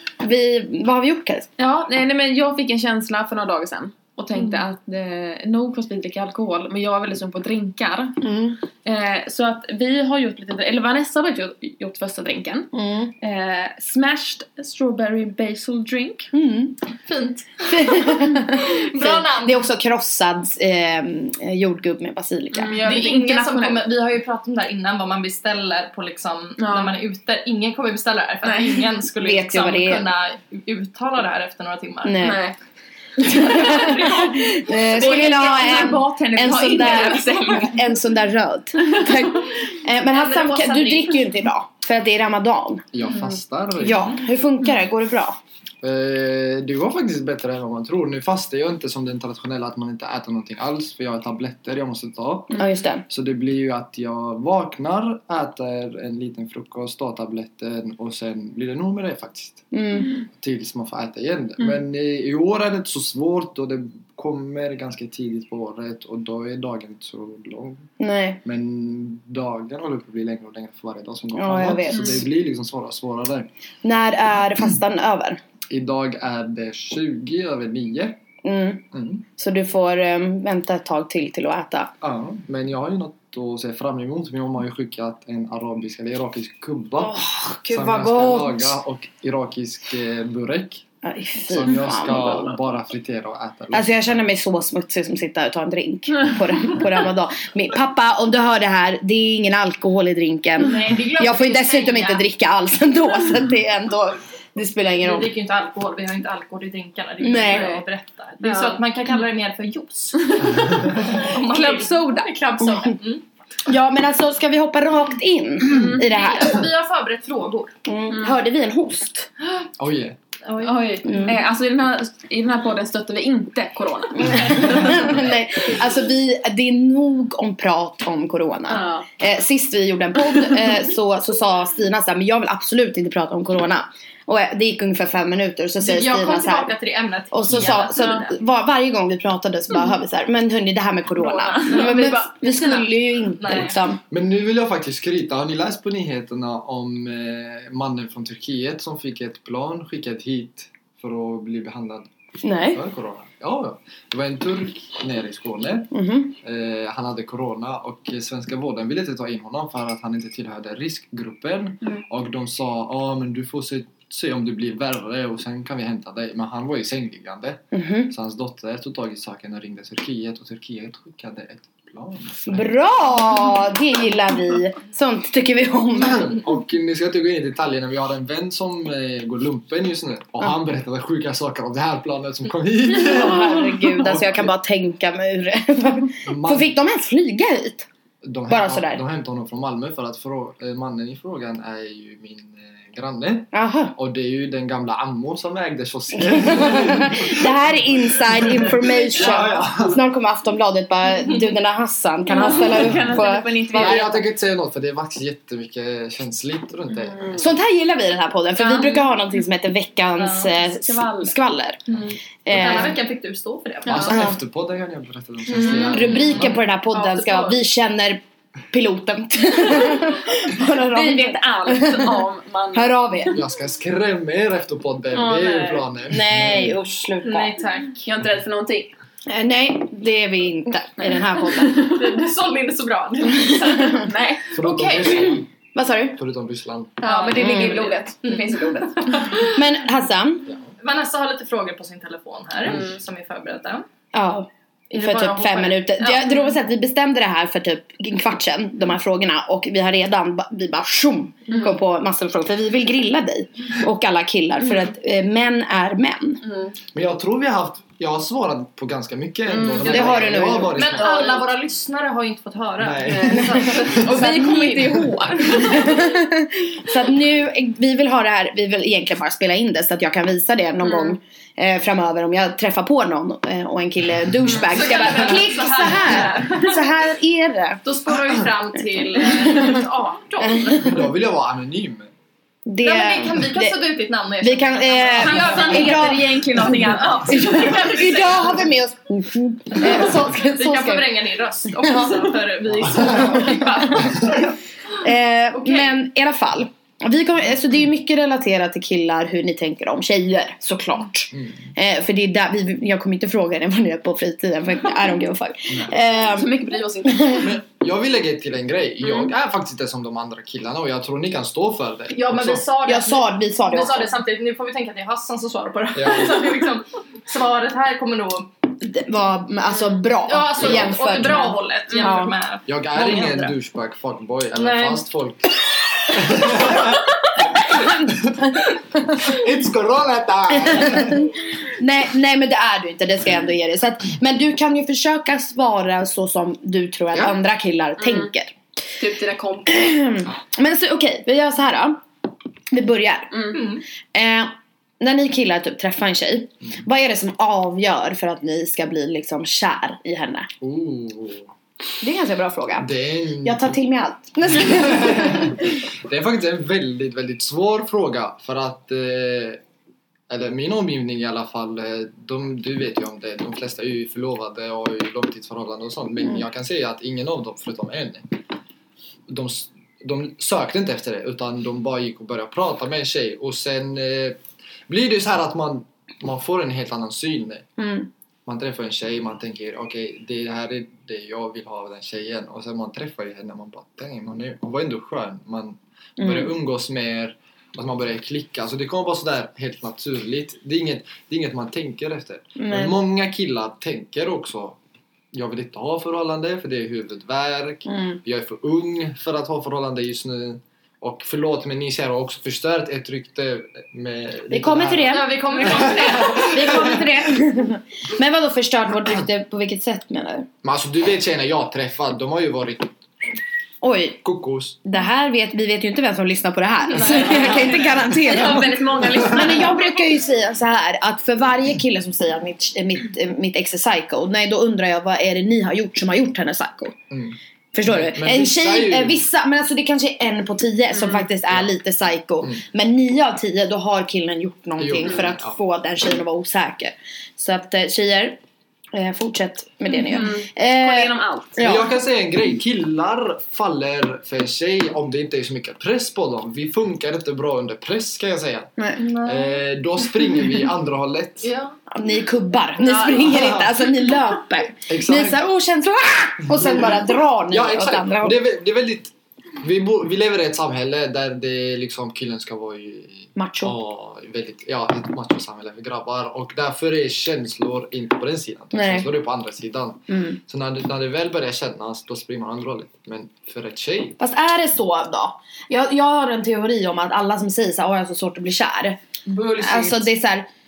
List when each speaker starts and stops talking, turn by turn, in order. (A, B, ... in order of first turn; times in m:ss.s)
0:00.2-0:01.5 A
0:01.6-0:08.2 B
0:08.2-0:08.6 A
0:08.8-0:16.3 B
0:12.7-0:13.1 A
0:16.3-0:16.8 A
0:17.1-0:19.7 C
0:17.7-0:22.8 A
0:22.5-0:23.9 B
0:22.8-0:32.2 C
0:26.6-0:27.0 B
0:28.4-0:28.9 B
0:29.2-0:30.0 A
0:32.0-0:32.4 A
0:32.2-0:32.6 B
0:33.2-0:34.2 B
0:33.2-0:42.9 A
0:33.3-0:34.3 C
0:34.8-0:37.9 B
0:40.1-0:41.2 C
0:42.9-0:44.1 D
0:43.8-0:45.4 A
0:45.8-0:59.7 D
0:52.6-0:53.0 A
0:59.7-1:00.1 A
1:00.4-1:07.9 D
1:08.0-1:08.4 A
1:08.4-1:13.5 D
1:11.3-1:12.2 A
1:13.8-1:15.4 A
1:15.7-1:18.2 D
1:18.4-1:21.9 A
1:18.9-1:19.2 D
1:22.0-1:30.8 D
1:27.0-1:28.8 A
1:31.0-1:32.6 A
1:31.5-1:34.2 D
1:33.7-1:45.3 A
1:40.6-1:42.3 C
1:45.0-1:53.2 C
1:47.2-1:47.8 A
1:47.4-1:47.8 B
1:48.4-1:48.8 B
1:51.6-1:52.2 B
1:53.7-1:56.6 A
1:55.7-1:56.0 B
1:56.0-1:57.7 C
1:57.9-1:59.3 A
1:59.8-2:00.2 D
2:00.4-2:01.4 C
2:00.6-2:05.1 B
2:01.0-2:01.4 A
2:04.2-2:16.7 A
2:08.7-2:09.1 B
2:15.8-2:18.4 C
2:17.3-2:24.0 A
2:17.9-2:18.2 B
2:21.2-2:22.8 B
2:21.7-2:22.8 C
2:23.4-2:23.8 C
2:24.1-2:32.1 D
2:32.4-2:32.8 A
2:32.6-2:52.7 D
2:35.9-2:36.4 A
2:47.7-2:48.1 A
2:52.4-2:56.4 A
2:56.0-3:04.5 D
3:02.9-3:07.9 A
3:03.2-3:04.0 B
3:06.2-3:06.7 D
3:08.2-3:20.0 D
3:08.5-3:09.0 A
3:13.5-3:14.0 A
3:16.3-3:24.0 A
3:22.3-3:24.2 B
3:23.7-3:27.4 D
3:27.0-3:27.4 B
3:27.4-3:31.8 A
3:28.6-3:28.9 B
3:30.2-3:30.5 C
3:30.6-3:31.4 B
3:31.9-3:32.2 B
3:32.4-3:33.0 A
3:32.5-3:34.2 C
3:33.9-3:34.2 B
3:33.9-3:36.6 D
3:35.5-3:37.6 B
3:35.7-3:43.4 A
3:40.6-3:43.0 B
3:43.3-3:46.8 D
3:45.1-3:45.9 B
3:46.1-3:47.6 A
3:47.2-3:48.1 C
3:48.0-3:48.9 B
3:49.3-3:52.0 A
3:51.0-3:52.0 B
3:51.8-3:55.4 C
3:53.4-3:54.0 A
3:53.9-3:54.5 B
3:54.5-3:55.5 D
3:55.8-3:56.2 A
3:56.2-3:57.0 D
3:57.0-3:59.6 C
3:57.0-3:59.5 B
3:57.4-3:57.8 A
3:59.5-4:00.5 A
4:00.8-4:03.8 C
4:02.6-4:03.0 D
4:04.1-4:16.4 A
4:04.9-4:05.8 B
4:06.0-4:06.4 C
4:16.4-4:16.8 B
4:16.9-4:21.2 D
4:19.5-4:21.5 B
4:19.8-4:20.9 A
4:20.8-4:26.0 C
4:22.8-4:24.0 D
4:23.1-4:26.1 B
4:23.5-4:37.8 A
4:30.8-4:31.2 B
4:34.6-4:36.8 C
4:37.8-4:41.0 C
4:40.4-4:40.8 A
4:40.8-4:42.1 D
4:42.7-4:43.8 A
4:42.8-4:46.1 C
4:44.4-4:51.1 A
4:45.2-4:48.3 B
4:47.0-4:48.5 C
4:49.8-4:54.5 C
4:51.8-4:52.3 A
4:53.1-4:54.3 A
4:55.0-5:06.5 A
4:55.6-4:55.9 C
5:01.3-5:01.6 D
5:06.2-5:07.5 B
5:07.0-5:07.5 A
5:07.4-5:12.6 D
5:12.1-5:18.5 C
5:12.8-5:14.1 A
5:15.9-5:16.4 D
5:18.8-5:22.3 A
5:20.2-5:23.6 C
5:20.6-5:20.9 D
5:22.7-5:27.1 D
5:24.5-5:25.0 C
5:27.9-5:28.5 D
5:29.0-5:31.3 D
5:30.6-5:38.5 A
5:38.0-5:38.3 B
5:39.0-5:39.8 B
5:39.7-5:42.0 A
5:42.7-5:43.6 A
5:43.3-5:43.6 B
5:43.5-5:43.8 C
5:44.1-5:50.5 A
5:50.6-5:51.5 D
5:52.0-5:52.9 A
5:52.8-5:53.8 D
5:53.4-5:55.7 A
5:54.5-5:59.6 D
6:00.3-6:08.3 D
6:09.3-6:17.7 D
6:17.8-6:18.1 A
6:18.5-6:34.8 D
6:26.2-6:26.5 A
6:32.6-6:33.0 A
6:35.3-6:47.0 D
6:37.9-6:38.2 A
6:44.5-6:50.5 A
6:45.1-6:46.6 C
6:50.6-6:52.9 D
6:53.8-6:54.2 A
6:54.2-6:54.8 D
6:54.8-7:07.0 A
6:57.0-6:57.9 C
6:57.4-6:59.8 B
7:07.1-7:09.2 D
7:07.7-7:18.4 A
7:14.8-7:15.6 D
7:18.9-7:21.9 A
7:19.9-7:21.6 B
7:21.6-7:31.5 D
7:29.0-7:29.6 C
7:31.4-7:31.8 C
7:31.9-7:38.4 A
7:32.8-7:33.3 B
7:33.2-7:33.6 D
7:34.9-7:35.4 D
7:36.5-7:54.2 D
7:43.4-7:43.8 A
7:48.7-7:49.1 A
7:50.1-7:50.4 A
7:54.2-7:59.0 A
7:59.3-8:00.1 B
7:59.6-8:00.5 A